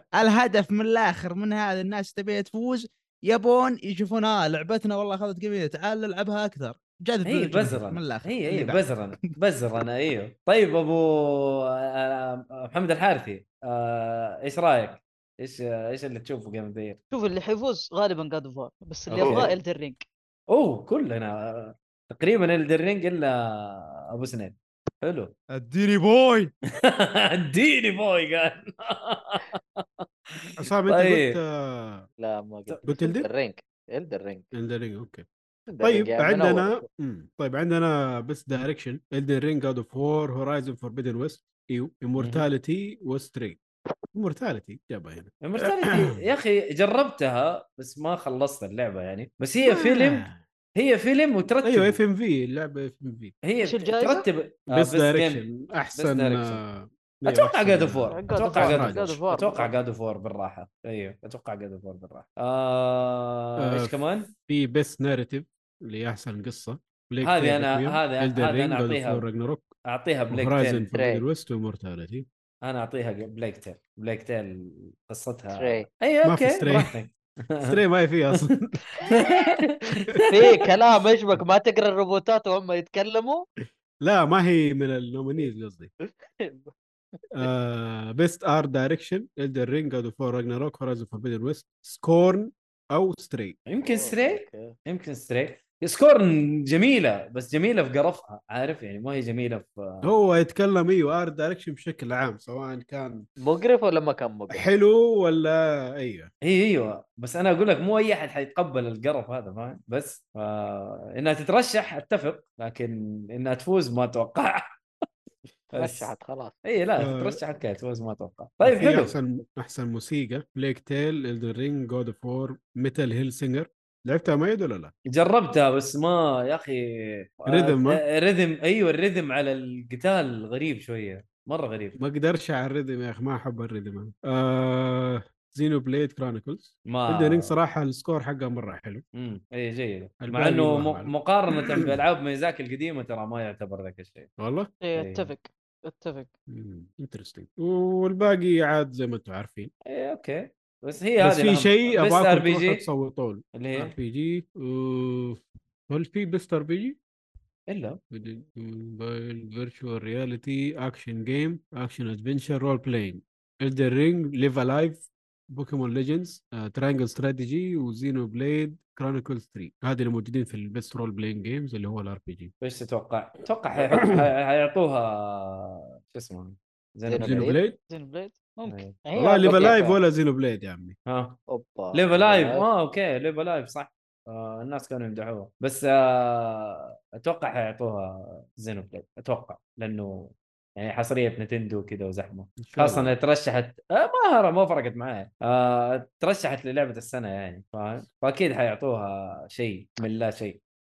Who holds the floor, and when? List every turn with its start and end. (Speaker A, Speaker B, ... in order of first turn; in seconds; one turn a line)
Speaker A: 0.2-9.3
Speaker B: 7.2-17.0
Speaker C: 17.1-20.0
Speaker D: 19.1-19.6
Speaker B: 19.2-19.5
Speaker B: 20.5-25.3
Speaker A: 25.5-26.5
Speaker B: 26.8-31.4
Speaker D: 30.6-32.1
Speaker E: 32.2-34.5
Speaker D: 32.8-33.3
Speaker D: 34.5-35.2
Speaker E: 35.7-36.8
Speaker D: 35.8-43.6
Speaker B: 42.2-42.5
Speaker D: 44.1-46.1
Speaker B: 45.4-52.0
Speaker D: 49.6-50.4
Speaker D: 51.6-53.3
Speaker B: 53.4-55.4
Speaker C: 53.6-54.2
Speaker D: 54.7-59.2
Speaker B: 56.0-56.6
Speaker B: 57.3-64.3
Speaker C: 58.1-59.7
Speaker D: 63.6-69.7
Speaker B: 67.2-69.2
Speaker B: 69.9-70.9
Speaker D: 70.3-72.2
Speaker E: 70.9-71.2
Speaker B: 72.6-77.8
Speaker E: 75.5-75.8
Speaker D: 76.2-76.9
Speaker D: 77.6-79.0
Speaker E: 79.0-79.5
Speaker B: 79.0-80.6
Speaker E: 80.3-83.5
Speaker D: 84.0-85.9
Speaker E: 86.0-87.5
Speaker D: 87.3-93.5
Speaker B: 93.7-100.1
Speaker E: 93.8-94.7
Speaker D: 100.0-103.2
Speaker E: 103.4-104.6
Speaker D: 104.5-106.3
Speaker B: 106.4-114.7
Speaker B: 115.7-116.1
Speaker E: 115.8-116.5
Speaker B: 116.7-119.1
Speaker D: 117.0-117.4
Speaker D: 118.6-124.9
Speaker B: 125.1-132.0
Speaker D: 127.5-128.0
Speaker D: 132.0-139.0
Speaker B: 136.9-137.5
Speaker B: 139.2-144.3
Speaker D: 140.2-141.1
Speaker D: 144.4-144.7
Speaker C: 144.8-146.3
Speaker B: 144.9-145.3
Speaker D: 146.5-149.7
Speaker B: 149.8-152.8
Speaker D: 151.2-157.0
Speaker B: 153.5-153.9
Speaker B: 157.7-158.0
Speaker D: 158.1-172.5
Speaker B: 172.6-177.5
Speaker E: 177.1-177.6
Speaker D: 177.2-177.7
Speaker C: 177.9-178.8
Speaker B: 178.7-180.0
Speaker E: 179.1-179.8
Speaker D: 179.1-181.0
Speaker B: 181.1-181.4
Speaker E: 181.5-182.7
Speaker B: 181.9-200.6
Speaker D: 192.6-193.1